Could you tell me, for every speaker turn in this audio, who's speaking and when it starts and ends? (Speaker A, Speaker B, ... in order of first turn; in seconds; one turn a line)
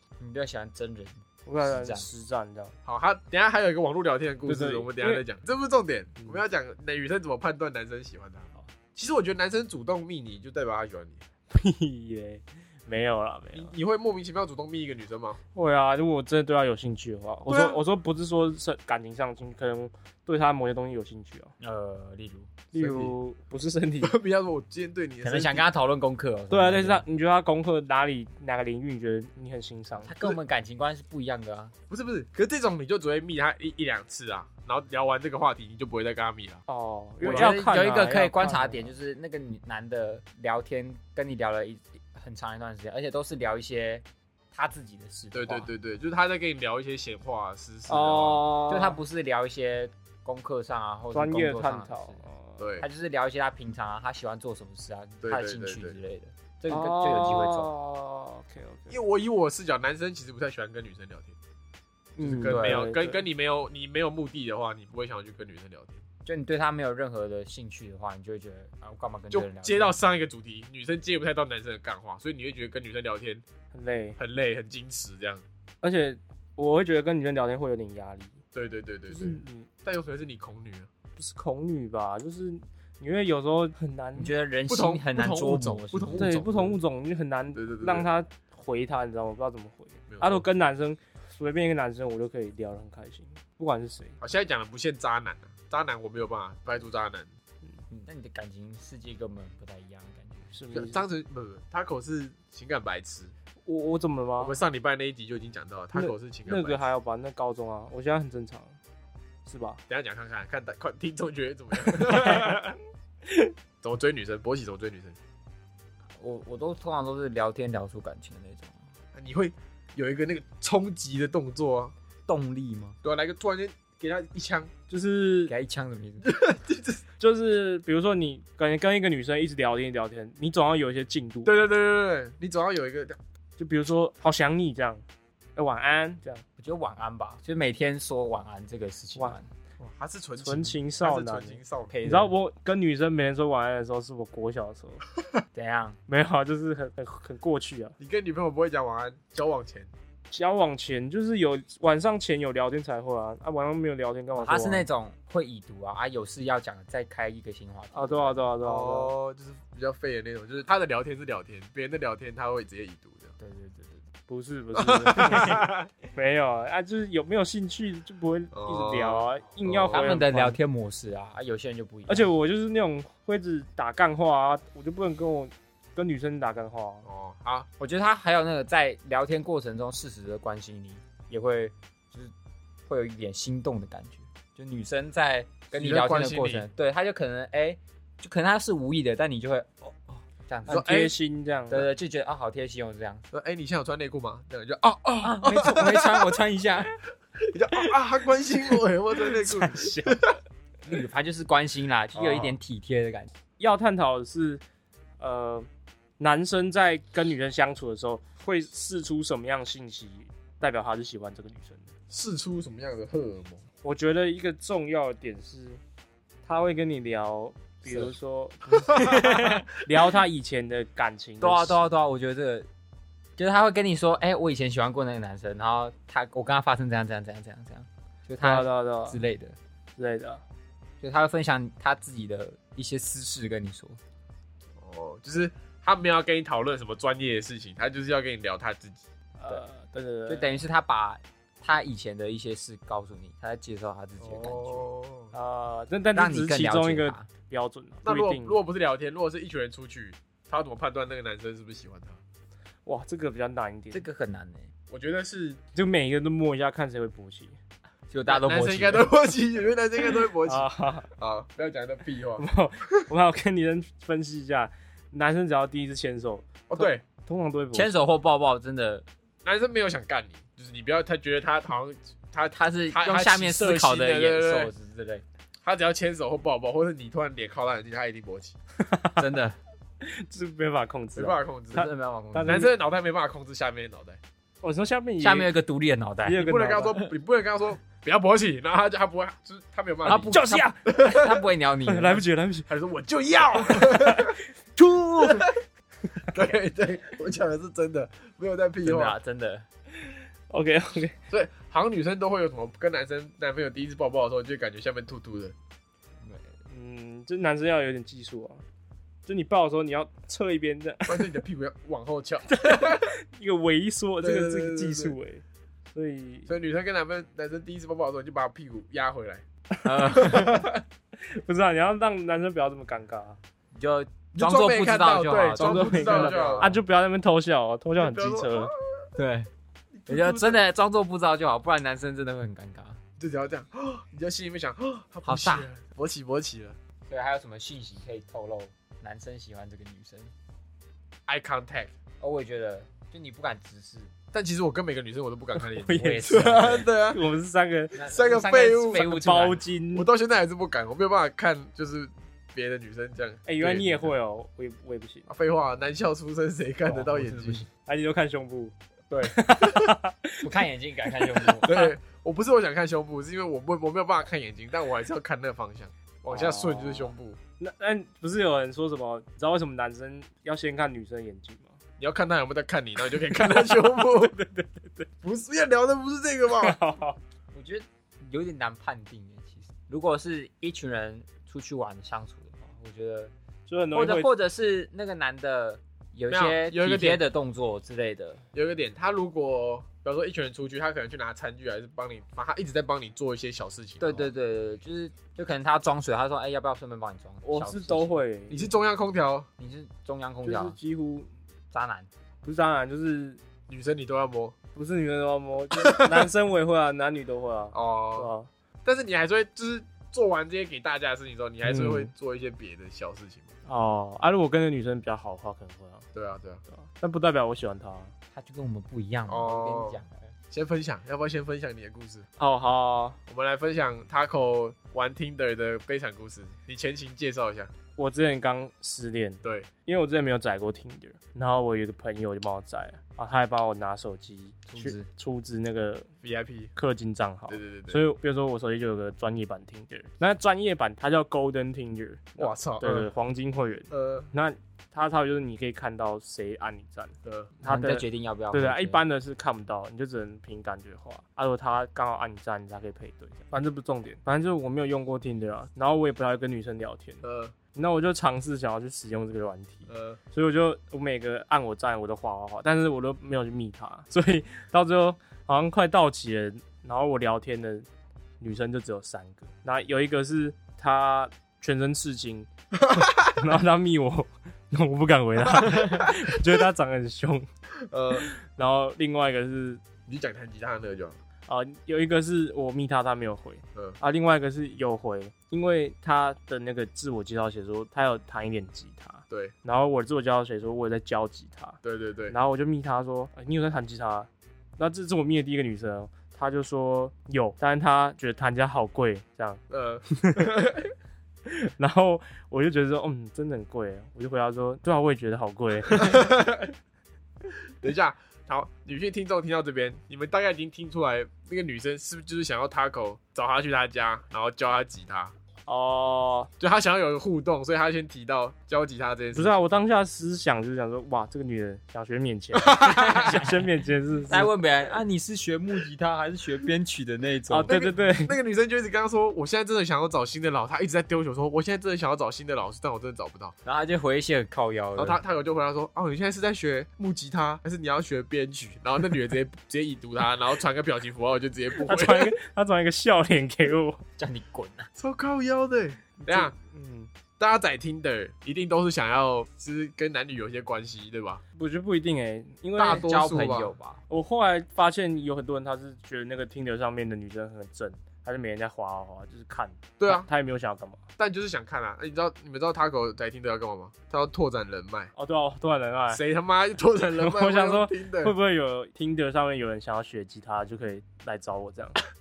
Speaker A: 0.2-2.1
Speaker B: 1.4-2.7
Speaker C: 2.9-11.2
Speaker B: 4.5-5.2
Speaker B: 11.5-13.7
Speaker C: 13.5-15.4
Speaker B: 15.5-21.5
Speaker C: 17.5-17.8
Speaker A: 21.6-22.6
Speaker B: 22.7-24.1
Speaker C: 22.8-23.1
Speaker C: 24.0-25.6
Speaker A: 25.2-27.0
Speaker B: 26.5-30.1
Speaker A: 30.0-31.7
Speaker C: 31.9-36.6
Speaker B: 36.7-38.9
Speaker C: 37.2-37.6
Speaker A: 37.2-45.7
Speaker C: 45.3-48.5
Speaker B: 47.9-49.0
Speaker A: 48.7-52.2
Speaker B: 51.1-52.6
Speaker C: 52.6-52.9
Speaker A: 52.8-57.7
Speaker C: 55.2-56.0
Speaker B: 56.7-59.0
Speaker C: 58.9-61.3
Speaker A: 62.2-62.9
Speaker B: 62.2-63.2
Speaker C: 62.3-66.0
Speaker A: 66.2-70.0
Speaker C: 69.3-73.4
Speaker B: 73.7-74.2
Speaker C: 74.2-75.4
Speaker B: 75.8-78.4
Speaker C: 78.5-80.9
Speaker B: 79.1-79.7
Speaker B: 81.2-84.3
Speaker A: 84.2-86.3
Speaker C: 84.7-86.8
Speaker B: 86.1-94.2
Speaker C: 87.5-88.1
Speaker C: 90.1-90.5
Speaker C: 94.2-97.3
Speaker A: 97.9-100.5
Speaker B: 100.5-101.0
Speaker C: 100.7-103.3
Speaker B: 103.6-104.5
Speaker C: 104.4-106.8
Speaker B: 105.9-108.8
Speaker B: 109.5-109.8
Speaker C: 109.9-112.8
Speaker B: 111.8-112.6
Speaker B: 113.2-113.5
Speaker C: 113.8-115.2
Speaker A: 116.2-118.9
Speaker C: 119.1-121.9
Speaker A: 122.3-123.0
Speaker C: 123.0-124.7
Speaker B: 124.9-125.5
Speaker A: 125.5-126.3
Speaker C: 126.2-127.0
Speaker B: 127.2-131.6
Speaker C: 131.4-133.2
Speaker B: 133.6-135.0
Speaker B: 135.6-136.4
Speaker A: 136.6-139.4
Speaker C: 139.8-142.1
Speaker B: 140.4-145.0
Speaker A: 141.9-142.3
Speaker A: 145.5-146.0
Speaker B: 146.1-147.9
Speaker C: 148.0-149.9
Speaker B: 150.3-154.9
Speaker A: 154.3-158.4
Speaker B: 157.9-159.1
Speaker C: 158.6-163.3
Speaker A: 163.4-164.0
Speaker B: 164.3-170.6
Speaker C: 164.8-165.9
Speaker C: 168.5-170.1
Speaker A: 169.9-172.3
Speaker B: 172.1-177.1
Speaker C: 177.1-177.7
Speaker A: 177.8-182.3
Speaker A: 182.9-191.0
Speaker C: 185.7-186.7
Speaker B: 190.7-191.9
Speaker C: 190.7-191.1
Speaker A: 191.7-193.2
Speaker C: 193.3-196.3
Speaker A: 195.2-196.9
Speaker C: 197.4-200.3
Speaker B: 199.2-200.3
Speaker A: 200.8-203.3
Speaker C: 202.1-202.6
Speaker B: 203.6-204.6
Speaker B: 205.2-205.7
Speaker B: 206.2-211.9
Speaker C: 212.1-213.6
Speaker B: 213.8-215.8
Speaker B: 216.4-221.8
Speaker C: 218.7-219.6
Speaker A: 221.4-222.7
Speaker A: 223.4-229.6
Speaker B: 228.4-229.2
Speaker B: 230.0-230.4
Speaker A: 231.0-234.0
Speaker C: 234.8-239.0
Speaker B: 239.4-240.6
Speaker A: 240.3-244.9
Speaker C: 244.2-245.3
Speaker B: 245.3-248.6
Speaker A: 246.1-247.3
Speaker C: 248.0-252.2
Speaker B: 252.8-254.1
Speaker A: 253.9-254.7
Speaker C: 254.9-255.6
Speaker B: 255.7-257.6
Speaker A: 258.1-259.1
Speaker C: 258.3-262.5
Speaker B: 260.4-261.1
Speaker B: 262.4-267.9
Speaker C: 266.7-267.0
Speaker A: 267.7-269.1
Speaker C: 269.4-274.7
Speaker A: 272.5-275.2
Speaker C: 275.6-278.6
Speaker B: 278.8-279.2
Speaker A: 279.2-279.6
Speaker B: 280.0-282.7
Speaker C: 281.1-281.9
Speaker A: 281.7-282.7
Speaker C: 282.4-284.2
Speaker B: 284.6-285.5
Speaker A: 285.2-286.4
Speaker B: 286.2-287.0
Speaker C: 286.4-291.4
Speaker A: 290.0-292.2
Speaker B: 290.3-290.9
Speaker B: 291.9-292.7
Speaker C: 292.7-294.4
Speaker B: 293.7-294.3
Speaker A: 294.8-295.5
Speaker C: 295.2-295.5
Speaker C: 296.3-299.1
Speaker A: 298.8-299.6
Speaker B: 300.1-301.1
Speaker C: 301.3-305.5
Speaker A: 306.2-306.5
Speaker B: 306.7-308.6
Speaker B: 309.2-311.3
Speaker C: 311.1-313.1
Speaker B: 312.5-315.4
Speaker C: 314.2-315.1
Speaker B: 315.9-316.5
Speaker C: 316.5-319.4
Speaker A: 319.8-320.6
Speaker B: 320.1-320.4
Speaker C: 320.1-320.8
Speaker B: 321.2-323.4
Speaker A: 323.7-326.8
Speaker C: 324.4-326.7
Speaker B: 325.6-328.7
Speaker C: 328.0-329.0
Speaker A: 329.1-329.5
Speaker C: 329.9-330.6
Speaker A: 330.1-333.0
Speaker C: 333.2-336.8
Speaker A: 335.2-335.7
Speaker A: 337.1-340.3
Speaker C: 341.3-341.9
Speaker A: 342.2-344.1
Speaker C: 344.3-347.2
Speaker B: 345.6-348.0
Speaker A: 345.9-346.9
Speaker A: 347.9-349.6
Speaker C: 348.0-349.1
Speaker B: 348.9-350.1
Speaker C: 349.9-354.1
Speaker B: 353.4-355.3
Speaker C: 355.3-357.6
Speaker A: 356.9-357.7
Speaker B: 357.8-361.9
Speaker C: 359.1-360.0
Speaker A: 360.4-361.7
Speaker C: 361.6-367.4
Speaker B: 366.3-371.7
Speaker C: 372.0-374.4
Speaker B: 373.2-375.1
Speaker C: 375.2-376.8
Speaker B: 376.6-377.2
Speaker A: 377.5-383.3
Speaker B: 383.7-384.3
Speaker A: 383.9-388.4
Speaker C: 386.3-387.2
Speaker C: 388.5-394.3
Speaker A: 394.0-398.2
Speaker B: 397.4-398.7
Speaker C: 398.5-399.5
Speaker A: 399.6-400.8
Speaker B: 400.4-401.3
Speaker A: 401.7-402.1
Speaker B: 402.4-403.4
Speaker C: 403.7-404.5
Speaker B: 404.7-408.5
Speaker C: 405.8-406.2
Speaker C: 407.7-408.3
Speaker C: 408.8-413.5
Speaker B: 411.6-412.1
Speaker B: 413.6-416.0
Speaker C: 416.1-416.6
Speaker B: 416.7-418.1
Speaker A: 418.3-420.3
Speaker C: 419.3-420.0
Speaker C: 420.5-422.2
Speaker B: 422.4-423.2
Speaker C: 423.3-427.7
Speaker B: 428.0-436.1
Speaker C: 429.4-429.7
Speaker A: 434.7-435.1
Speaker C: 436.2-436.7
Speaker B: 436.8-457.2
Speaker C: 437.5-438.0
Speaker C: 442.4-443.1
Speaker C: 443.9-444.3
Speaker C: 447.2-447.5
Speaker A: 447.6-449.0
Speaker C: 457.2-457.5
Speaker B: 457.7-467.9
Speaker C: 459.9-460.2
Speaker B: 468.4-472.5
Speaker C: 472.9-473.3
Speaker B: 473.2-477.5
Speaker C: 475.5-476.4
Speaker C: 477.9-478.3
Speaker B: 478.1-479.8
Speaker C: 480.1-481.2
Speaker B: 481.5-491.8
Speaker C: 491.8-492.4
Speaker B: 492.3-499.6
Speaker C: 499.7-500.9
Speaker B: 500.2-500.5
Speaker B: 501.5-506.2
Speaker C: 505.9-506.7
Speaker C: 507.8-515.3
Speaker B: 515.7-516.5
Speaker C: 516.6-519.5
Speaker B: 519.3-524.5
Speaker C: 522.5-523.5
Speaker A: 522.9-523.5
Speaker A: 524.3-527.8
Speaker B: 527.5-528.3
Speaker C: 527.7-533.5
Speaker A: 533.6-535.2
Speaker C: 535.0-542.3
Speaker B: 541.8-544.0
Speaker A: 544.2-544.9
Speaker C: 545.0-546.5
Speaker B: 546.2-547.1
Speaker C: 547.4-551.4
Speaker B: 551.6-553.1
Speaker C: 552.8-553.7
Speaker A: 552.8-554.0
Speaker B: 554.1-561.0
Speaker C: 560.0-560.3
Speaker C: 561.2-565.1
Speaker B: 565.1-566.2
Speaker C: 566.1-568.3
Speaker B: 567.1-572.0